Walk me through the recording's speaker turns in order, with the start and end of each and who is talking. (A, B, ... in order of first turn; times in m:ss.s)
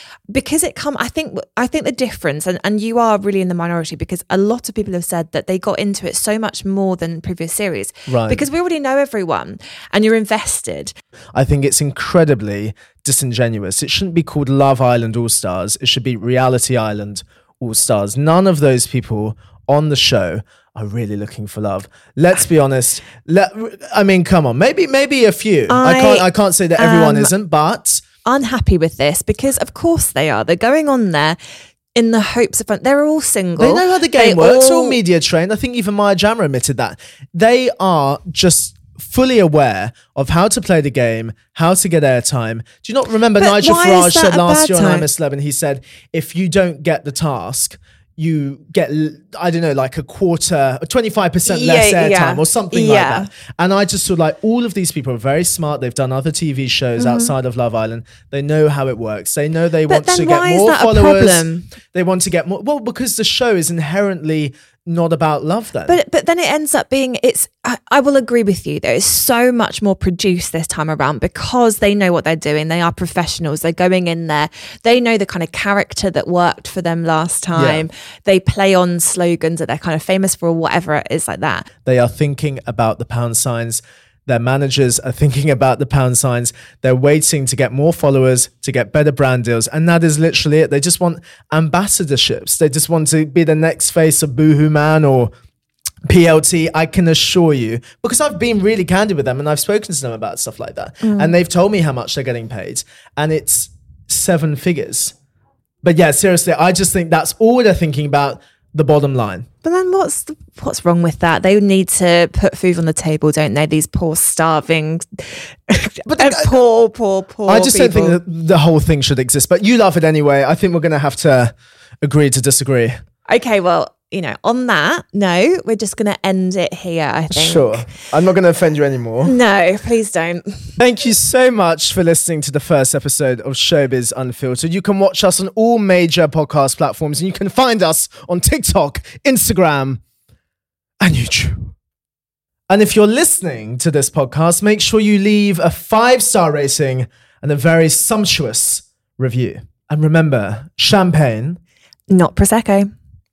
0:00.3-0:10.9 A
0:08.1-0:08.5 B
0:11.4-0:28.0 B
0:25.7-0:27.3 A
0:28.2-0:31.4 A
0:32.0-0:35.0 A
0:33.6-1:06.0 B
0:43.4-0:45.1 A
0:51.5-0:53.3 A
0:57.0-0:57.3 A
0:59.9-1:01.7 A
1:05.9-1:21.7 A
1:17.5-1:17.9 B
1:21.8-1:35.3 B
1:36.0-1:45.1 B
1:41.0-1:41.3 A
1:45.8-1:49.5 B
1:49.6-1:58.2 A
1:56.0-1:56.5 B
1:57.5-2:03.0 B
2:03.3-2:07.9 A
2:07.3-2:09.4 B
2:09.2-2:10.8 A
2:10.8-2:20.0 B
2:21.0-2:21.8 B
2:22.7-2:31.6 B
2:32.1-2:32.9 A